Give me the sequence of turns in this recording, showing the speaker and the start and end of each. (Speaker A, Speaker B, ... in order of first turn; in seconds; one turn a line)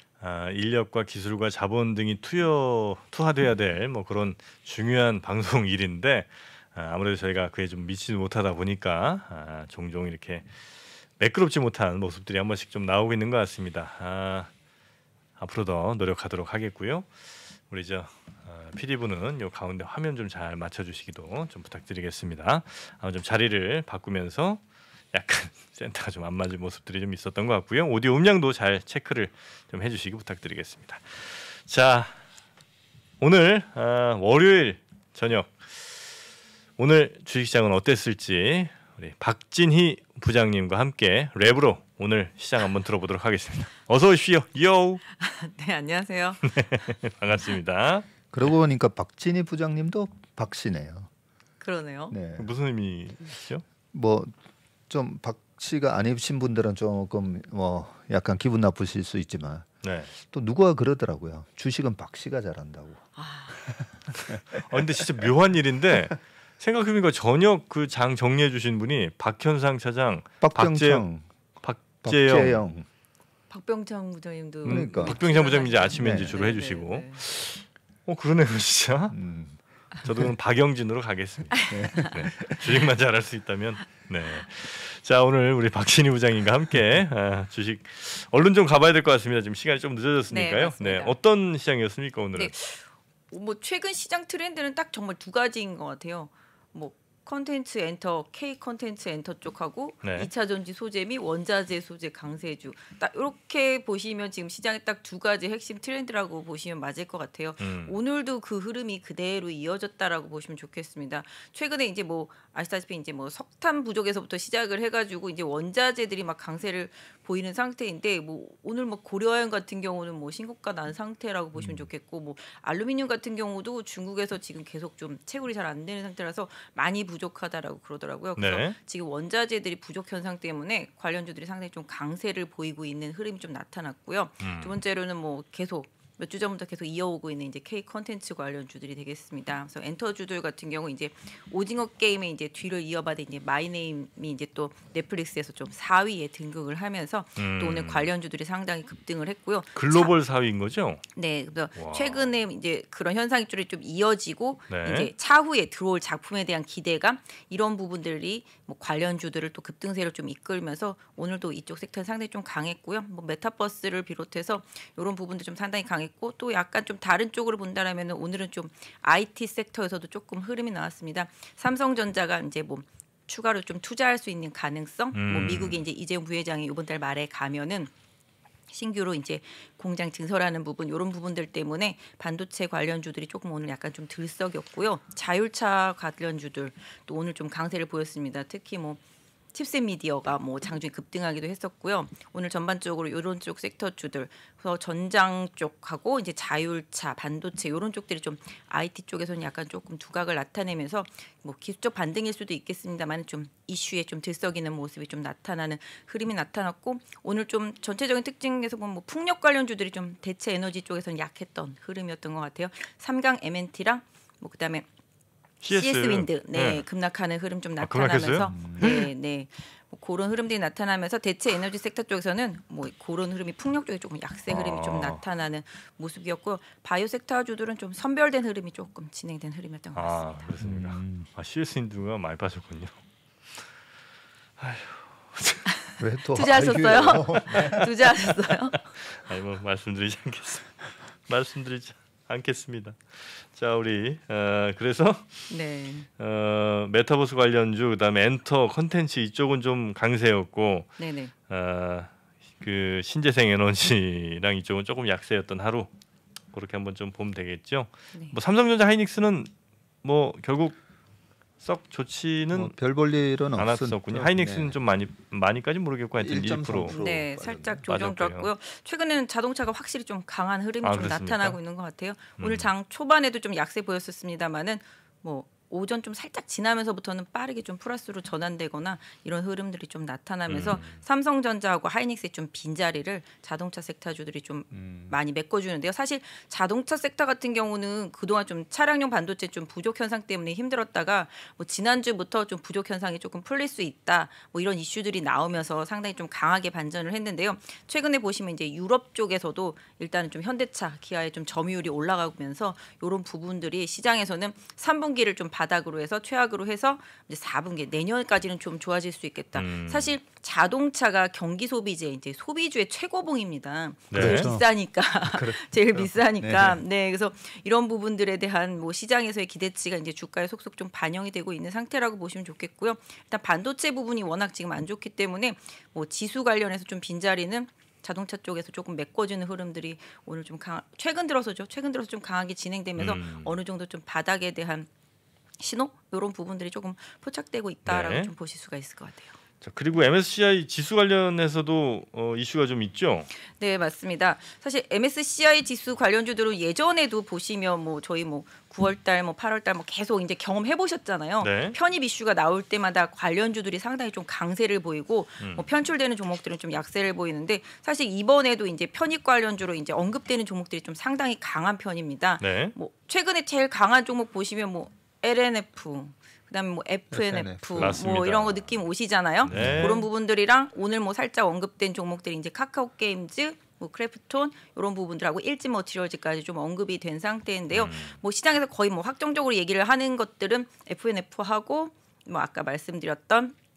Speaker A: 0.2-10.5
Speaker A: 11.2-14.5
Speaker A: 15.4-17.1
Speaker A: 17.7-24.6
Speaker A: 25.1-32.2
Speaker A: 33.2-36.0
Speaker A: 36.8-45.0
Speaker B: 45.2-46.8
Speaker A: 46.5-48.1
Speaker C: 48.3-51.1
Speaker B: 51.6-52.1
Speaker C: 52.1-52.5
Speaker A: 52.4-53.6
Speaker C: 53.9-54.3
Speaker C: 54.9-59.7
Speaker A: 59.8-60.1
Speaker C: 60.2-63.0
Speaker B: 63.1-63.6
Speaker C: 63.6-64.9
Speaker A: 64.5-71.0
Speaker C: 70.4-71.2
Speaker A: 71.6-72.6
Speaker C: 72.0-72.8
Speaker B: 73.5-77.2
Speaker A: 74.6-79.2
Speaker C: 74.7-75.2
Speaker C: 76.0-76.4
Speaker C: 79.1-79.5
Speaker A: 80.0-92.5
Speaker B: 81.5-82.2
Speaker C: 81.7-82.7
Speaker B: 90.3-91.1
Speaker B: 92.3-150.1
Speaker A: 100.0-100.3
Speaker A: 107.6-107.9
Speaker C: 121.6-121.8
Speaker A: 128.4-128.7
Speaker A: 134.4-134.7
Speaker A: 147.4-148.1
Speaker A: 149.7-151.0
Speaker B: 151.1-177.9
Speaker A: 151.8-152.3
Speaker A: 154.7-155.1
Speaker A: 175.1-175.8
Speaker B: 178.7-189.0
Speaker B: 189.5-214.8
Speaker A: 215.6-216.8
Speaker B: 215.7-230.5
Speaker A: 217.8-219.1
Speaker C: 218.5-219.0
Speaker A: 224.5-225.2
Speaker A: 229.9-232.9
Speaker C: 230.6-231.3
Speaker A: 234.6-235.7
Speaker B: 235.7-238.8
Speaker C: 236.0-237.9
Speaker A: 237.5-237.8
Speaker A: 238.9-245.5
Speaker B: 245.5-246.1
Speaker A: 246.2-250.9
Speaker B: 251.0-251.3
Speaker A: 251.5-255.9
Speaker A: 256.5-259.5
Speaker A: 260.0-260.8
Speaker A: 261.6-262.7
Speaker C: 262.5-264.8
Speaker A: 263.6-266.9
Speaker C: 266.2-267.8
Speaker B: 266.9-334.9
Speaker A: 267.9-268.5
Speaker A: 270.8-271.6
Speaker A: 272.4-272.7
Speaker A: 280.5-281.0
Speaker C: 284.7-285.1
Speaker A: 309.5-310.1
Speaker A: 314.1-314.5
Speaker C: 314.1-314.6
Speaker C: 315.2-316.8
Speaker A: 333.0-333.6
Speaker B: 335.6-339.3
Speaker A: 337.9-338.3
Speaker A: 339.6-343.3
Speaker B: 343.5-383.5
Speaker A: 351.4-351.8
Speaker A: 362.4-362.7
Speaker C: 367.1-368.0
Speaker A: 367.8-368.7
Speaker A: 369.4-370.0
Speaker C: 369.5-370.0
Speaker A: 377.7-378.2